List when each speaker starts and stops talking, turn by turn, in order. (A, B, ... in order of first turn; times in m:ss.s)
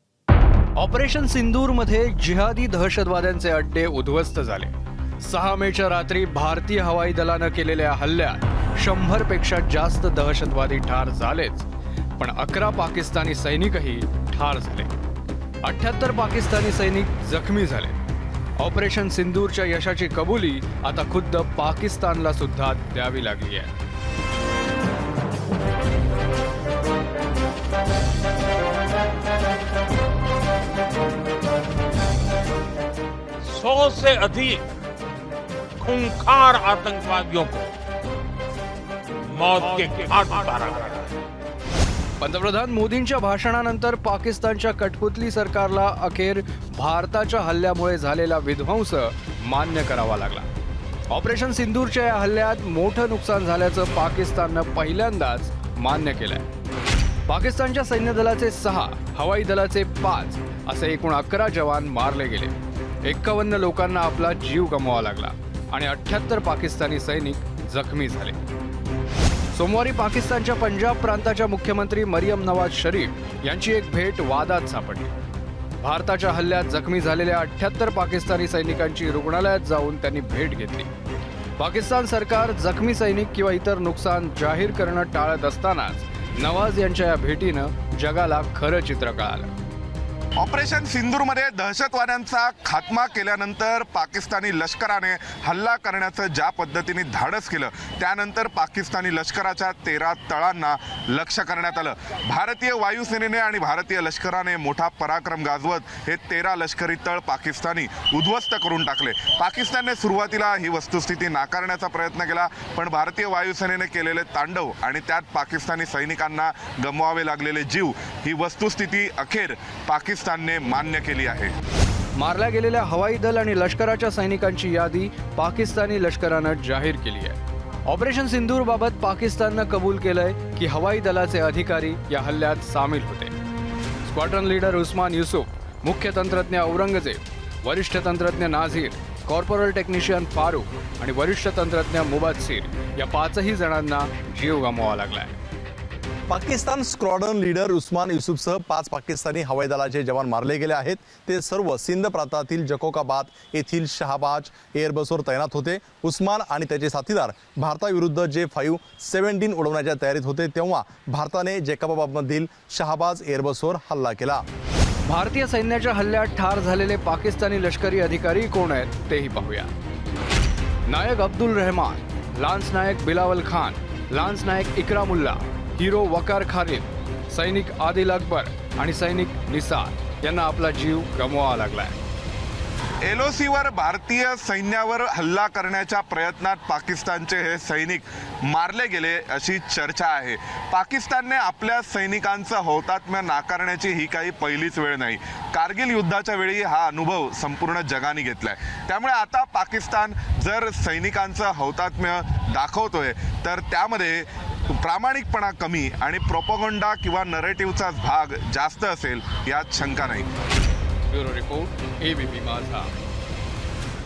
0:00.8-0:11.7 A
0:12.2-0:14.9 A
0:15.6-0:18.0 A
0:18.6-0:23.7 A
0:33.4-0:34.6 B
0:35.8-0:37.7 B
0:39.3-0:41.1 B
0:42.2-0:50.5 A
0:51.1-0:56.5 A
0:57.3-1:08.4 A
1:09.5-1:15.1 A
1:15.8-1:20.9 A
1:21.6-1:29.5 A
1:30.4-2:01.6 C
2:02.2-2:13.3 A
2:14.0-2:25.4 A
2:26.3-2:44.4 D
2:45.1-2:49.7 A
2:50.9-3:02.0 A
3:03.0-3:30.3 C
3:31.1-3:32.8 A